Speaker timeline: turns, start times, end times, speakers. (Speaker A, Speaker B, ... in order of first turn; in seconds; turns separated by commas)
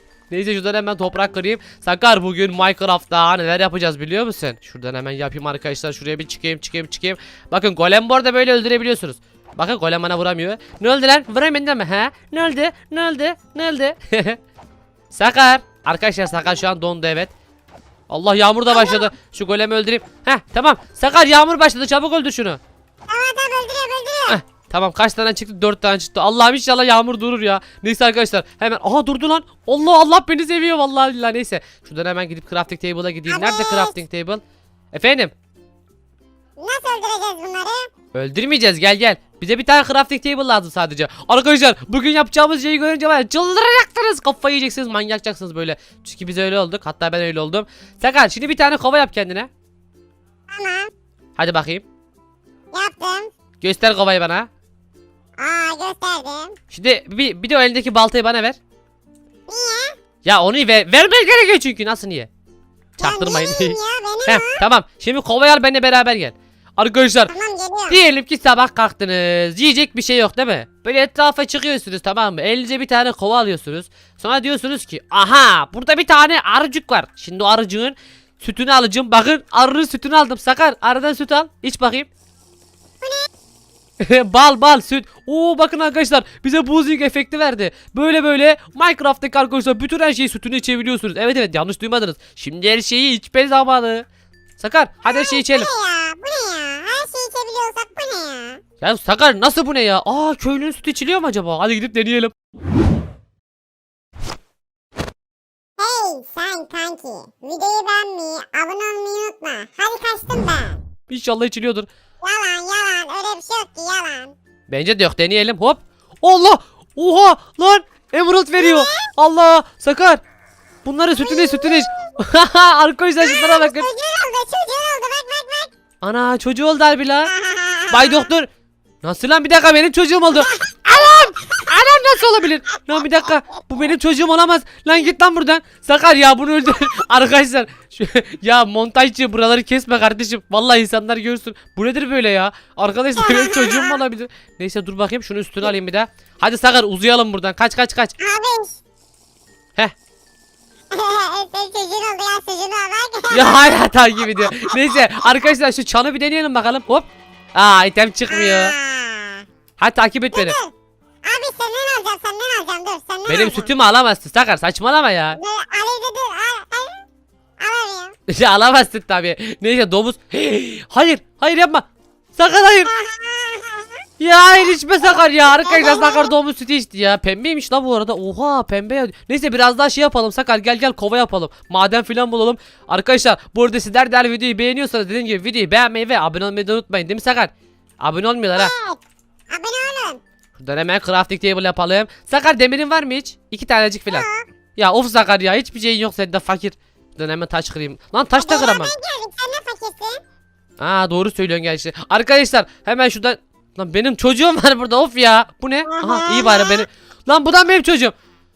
Speaker A: 0.3-14.4, Speaker A: 15.1-17.3, Speaker A: 18.1-22.6, Speaker B: 18.7-19.0, Speaker B: 23.1-24.4, Speaker A: 24.3-34.4, Speaker B: 33.3-34.0, Speaker A: 34.9-35.3, Speaker B: 36.6-37.9, Speaker A: 38.1-49.5, Speaker B: 50.5-50.9, Speaker A: 51.4-51.8, Speaker B: 52.7-53.3, Speaker A: 53.6-54.5, Speaker B: 55.4-56.6, Speaker A: 56.7-58.6, Speaker B: 59.5-60.0, Speaker A: 60.2-62.3, Speaker A: 63.0-67.3, Speaker B: 63.0-64.6, Speaker B: 67.3-68.0, Speaker A: 67.9-82.1, Speaker B: 83.0-83.3, Speaker A: 84.0-94.1, Speaker A: 94.6-95.7, Speaker B: 95.0-98.6, Speaker A: 98.8-102.3, Speaker B: 105.8-110.8, Speaker A: 111.1-111.9, Speaker B: 112.2-114.3, Speaker A: 114.7-120.2, Speaker B: 118.6-119.0, Speaker A: 120.8-123.9, Speaker B: 121.2-121.9, Speaker B: 123.2-125.7, Speaker A: 126.0-127.3, Speaker B: 127.3-128.3, Speaker A: 127.9-128.5, Speaker A: 129.0-148.1, Speaker B: 130.9-131.2, Speaker B: 143.2-144.0, Speaker B: 148.2-148.8, Speaker B: 150.9-153.6, Speaker A: 153.3-158.7, Speaker B: 158.3-159.4, Speaker A: 159.8-160.6, Speaker B: 160.3-160.7, Speaker B: 161.2-163.7, Speaker A: 163.3-165.4, Speaker B: 165.4-167.0, Speaker B: 167.6-168.2, Speaker A: 168.3-171.8, Speaker A: 172.4-172.9, Speaker B: 172.9-174.0, Speaker A: 174.2-188.7, Speaker B: 175.7-176.3, Speaker B: 188.6-189.0, Speaker B: 189.5-190.2, Speaker A: 190.6-198.9, Speaker B: 194.1-194.4, Speaker B: 198.4-200.2, Speaker A: 200.8-208.1, Speaker B: 205.9-206.8